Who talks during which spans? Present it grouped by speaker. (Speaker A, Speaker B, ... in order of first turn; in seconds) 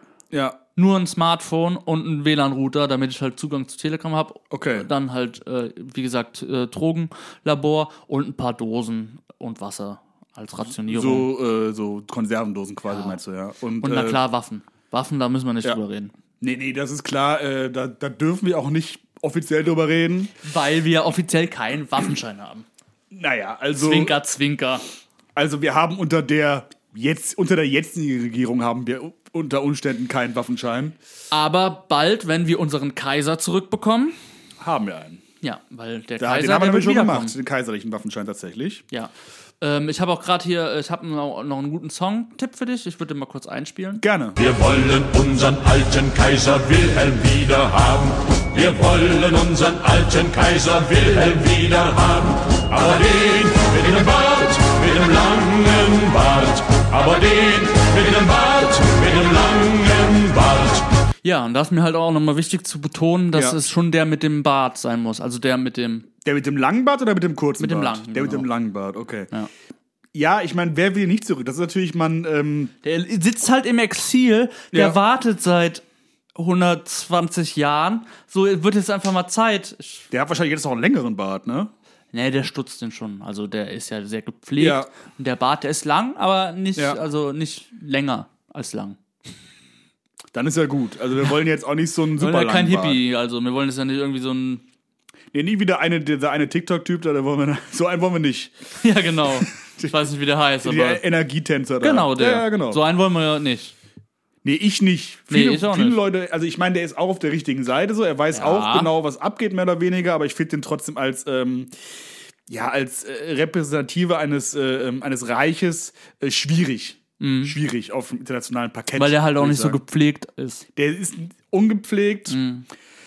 Speaker A: 0.3-0.6, 4.5-4.9, 10.9-14.2, 16.4-20.3, 23.1-24.1, 25.4-31.0, 34.6-35.2, 36.2-38.8, 44.0-44.4, 63.3-63.6, 66.2-69.3, 70.1-72.7, 74.7-75.0, 80.1-81.7, 84.6-84.9, 90.3-93.0, 95.3-98.5, 99.4-99.9, 100.6-102.8, 104.4-111.7, 112.5-119.8, 120.8-122.4
Speaker B: 0.8-11.3, 12.9-13.2, 13.8-16.1, 20.4-22.7, 23.8-24.8, 31.3-34.1, 35.4-37.4, 38.9-44.0, 61.2-66.1, 67.6-68.5, 72.8-75.8, 76.4-80.1, 82.1-89.0, 92.2-94.6, 98.8-101.0, 101.8-103.7, 105.3-106.0, 108.3-108.9, 117.2-117.6, 119.0-120.6, 122.3-122.7
Speaker C: 44.4-60.9